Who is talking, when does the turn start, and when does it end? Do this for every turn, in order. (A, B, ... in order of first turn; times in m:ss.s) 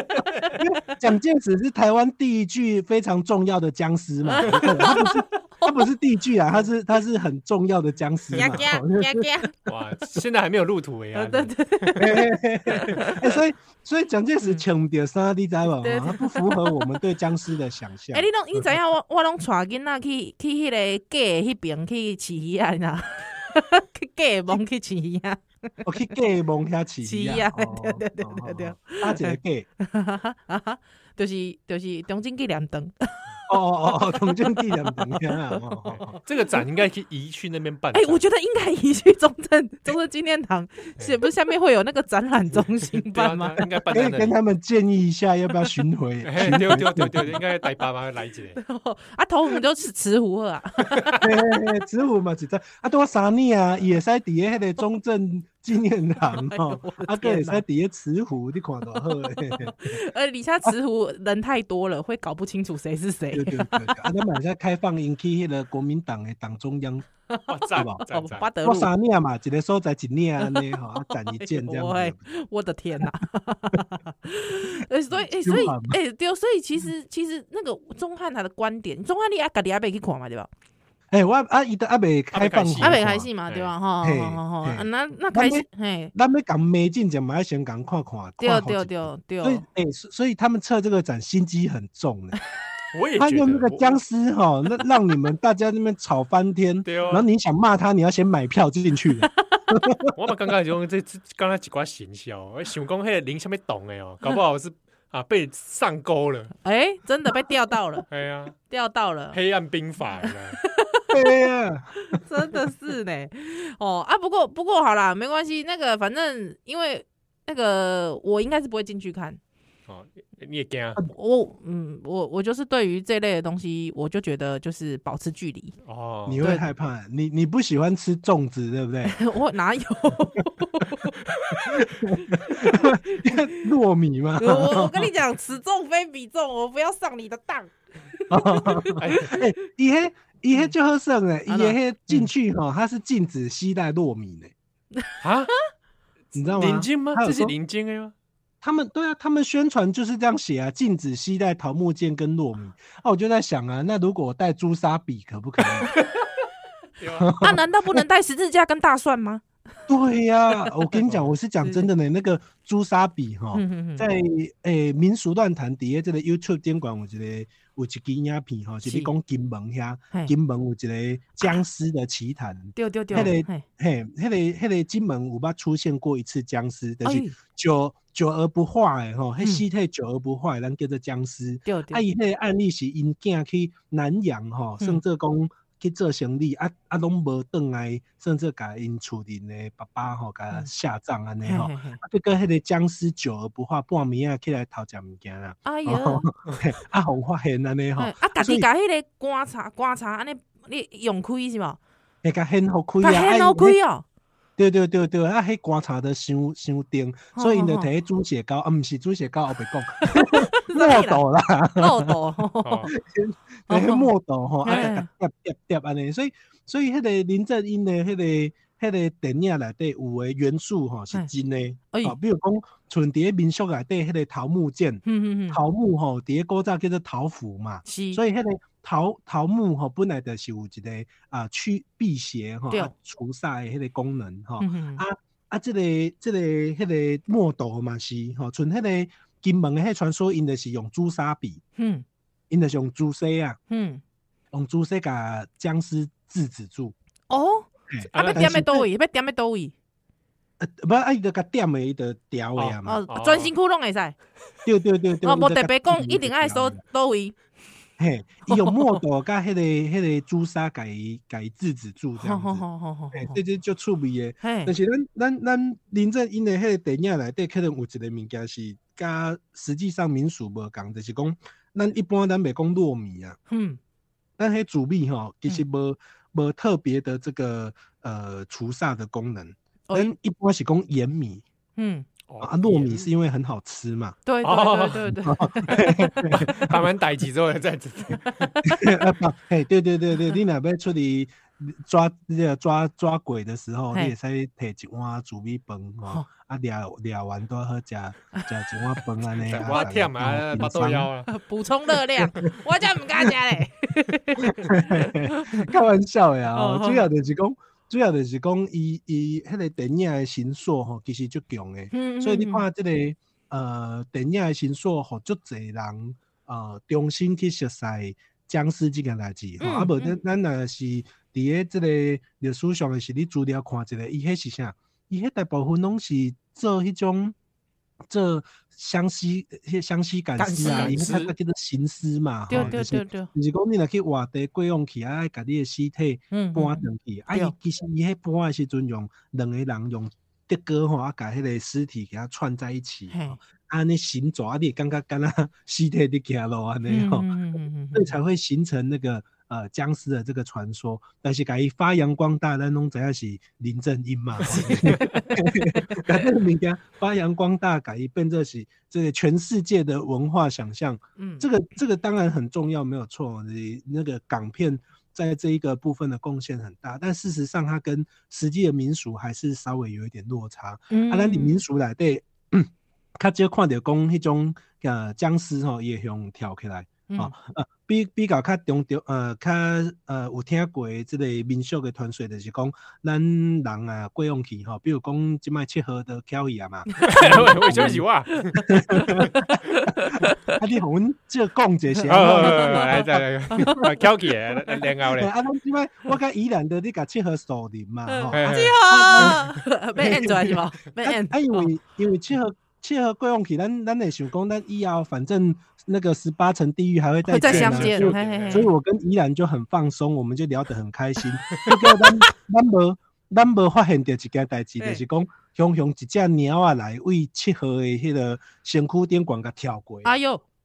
0:00.6-0:09.2 A
0:04.2-0:05.2 B
0:08.3-0:09.5 B
0:09.6-0:12.0 C
0:11.1-0:13.3 B
0:12.0-0:18.3 A
0:15.8-0:17.0 B
0:18.1-0:25.8 B
0:25.8-0:29.7 A
0:27.0-0:33.2 B
0:33.5-0:36.2 A
0:33.9-0:36.6 B
0:35.9-0:38.2 C
0:37.9-0:43.6 B
0:42.9-0:44.3 C
0:43.9-0:47.4 A
0:46.2-0:48.6 C
0:48.6-0:51.2 B
0:51.2-1:00.0 A
0:56.3-0:57.6 B
0:59.0-1:04.1 B
1:03.3-1:07.1 A
1:07.3-1:08.9 B
1:07.5-1:08.5 C
1:07.7-1:08.0 A
1:08.6-1:12.2 A
1:10.4-1:20.5 B
1:15.3-1:16.0 A
1:21.1-1:23.3 A
1:22.3-1:23.7 C
1:22.8-1:26.1 B
1:24.0-1:32.4 A
1:28.4-1:29.6 B
1:32.9-1:34.0 C
1:33.2-1:40.1 A
1:36.8-1:37.2 C
1:40.1-1:46.5 C
1:46.6-1:48.0 B
1:48.1-1:48.6 C
1:48.7-1:49.4 B
1:49.3-1:50.6 C
1:50.2-1:51.1 B
1:51.1-1:52.2 A
1:52.1-1:59.4 B
1:59.9-2:01.0 C
2:01.1-2:05.8 B
2:05.8-2:06.4 C
2:06.2-2:09.2 A
2:06.4-2:06.7 B
2:09.1-2:13.6 B
2:11.7-2:15.1 A
2:14.4-2:19.4 B
2:18.3-2:24.5 A
2:19.0-2:19.3 C
2:21.5-2:22.2 B
2:25.2-2:25.5 C
2:26.3-2:28.1 C
2:26.3-2:27.5 A
2:28.6-2:35.9 A
2:35.9-2:36.2 C
2:37.0-2:37.4 C
2:37.2-2:38.0 A
2:37.4-2:39.4 B
2:39.9-3:18.7 A
2:41.0-2:41.3 C
2:43.5-2:44.0 B
2:48.8-2:49.1 B
2:52.8-2:53.6 B
2:57.0-2:57.4 B
3:01.6-3:02.0 B
3:11.4-3:12.0 B
3:15.6-3:16.3 B
3:18.0-3:21.8 B
3:22.2-3:23.8 A
3:23.0-3:24.0 B
3:24.6-3:32.2 A
3:27.3-3:27.9 B
3:30.0-3:31.2 B
3:31.8-3:32.9 B
3:32.6-3:32.9 C
3:32.9-4:01.6 A
3:33.7-3:34.1 B
3:34.6-3:35.1 B
3:45.0-3:45.6 B
3:47.8-3:48.2 B
3:54.6-3:55.0 B
4:01.8-4:02.0 B
4:02.5-4:03.6 A
4:03.7-4:04.0 B
4:04.5-4:06.9 A
4:07.3-4:09.7 B
4:07.9-4:08.9 A
4:08.1-4:08.5 C
4:10.6-4:13.0 A
4:12.6-4:13.5 C
4:12.8-4:14.2 B
4:14.6-4:16.8 A
4:15.2-4:17.3 B
4:18.0-4:33.4 A
4:18.5-4:19.0 B
4:22.2-4:23.4 B
4:24.4-4:24.7 B
4:33.5-4:33.8 B
4:34.4-4:41.4 A
4:41.8-4:42.1 B
4:42.3-4:43.1 C
4:42.4-4:44.2 A
4:44.2-4:46.3 B
4:44.4-4:45.1 C
4:45.2-4:46.8 A
4:46.3-4:48.5 C
4:48.6-5:01.1 A
4:59.4-5:01.3 C
5:01.3-5:05.7 B
5:04.4-5:27.3 A
5:06.5-5:07.1 B
5:11.9-5:12.6 B
5:19.6-5:20.2 B
5:28.1-5:47.4 A
5:30.4-5:31.0 B
5:30.6-5:31.3 C
5:32.5-5:33.3 B
5:36.3-5:37.5 B
5:43.1-5:43.4 B
5:46.9-5:48.1 B
5:47.9-6:28.0 A
5:54.5-5:56.2 B
5:54.7-5:55.0 C
6:01.2-6:01.5 B
6:10.9-6:11.6 B
6:17.1-6:17.3 B
6:26.9-6:30.3 B
6:27.0-6:28.6 C
6:28.6-6:29.5 A
6:30.5-6:33.9 A
6:31.9-6:33.9 B
6:32.1-6:35.3 C
6:34.7-7:00.2 A
6:38.0-6:41.7 B
6:38.3-6:39.4 C
6:47.2-6:48.7 B
6:47.4-6:48.7 C
7:00.0-7:00.4 B